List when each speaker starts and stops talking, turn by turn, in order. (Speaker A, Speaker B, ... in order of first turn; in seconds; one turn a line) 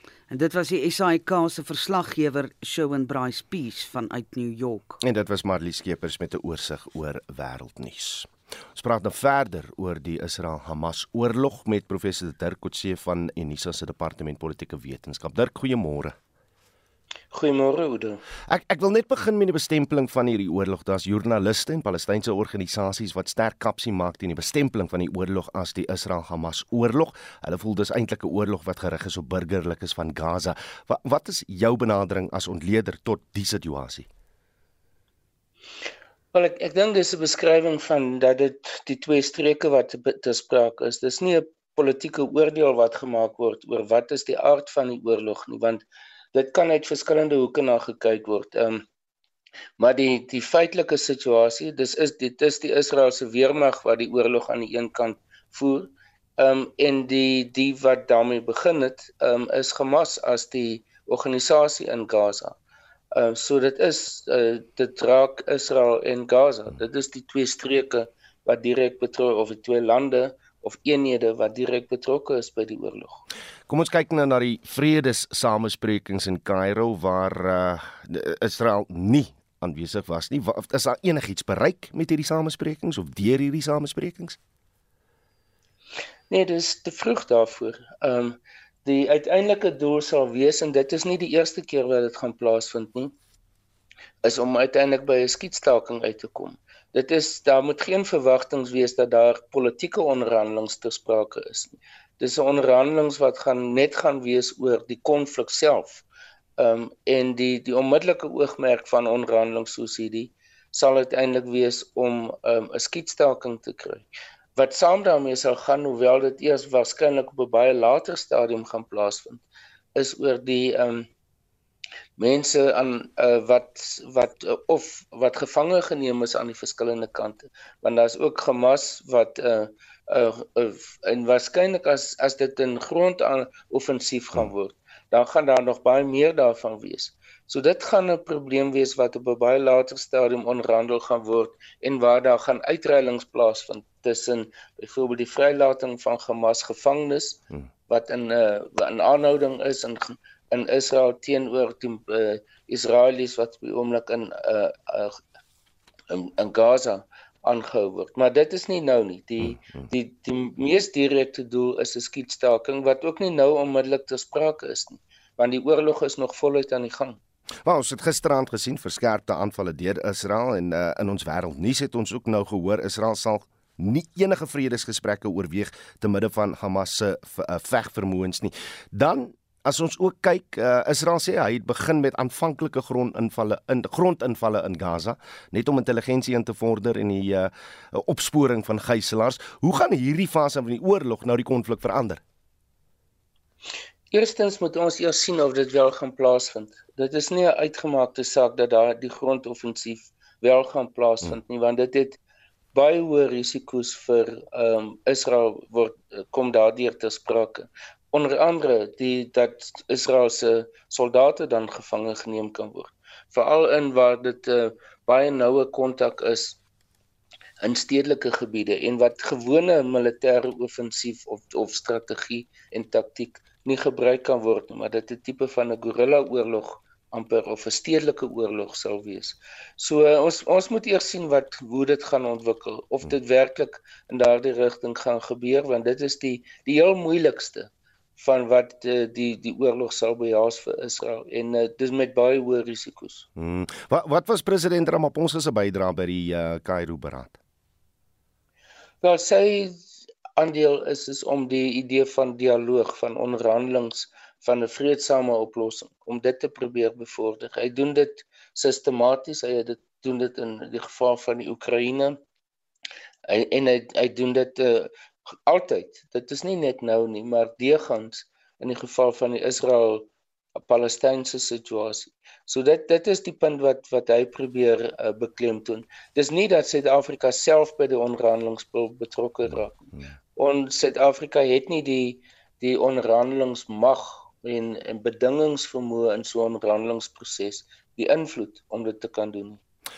Speaker A: 0.3-5.0
Speaker B: 5.0-16.1
Speaker C: 17.3-18.2
Speaker B: 18.5-34.1
Speaker C: 36.3-48.8
Speaker C: 49.8-62.5
Speaker C: 63.1-73.2
Speaker B: 73.7-84.4
Speaker C: 86.3-93.1
Speaker C: 94.2-106.0
Speaker C: 106.6-119.4
Speaker C: 119.9-121.1
Speaker C: 122.2-155.2
Speaker C: 156.1-167.2
Speaker B: 159.4-159.8
Speaker B: 167.6-192.2
Speaker C: 194.1-202.2
Speaker C: 202.7-216.6
Speaker C: 217.6-243.2
Speaker B: 243.3-247.4
Speaker C: 249.0-249.8
Speaker C: 250.4-262.2
Speaker C: 263.3-264.9
Speaker C: 265.4-289.6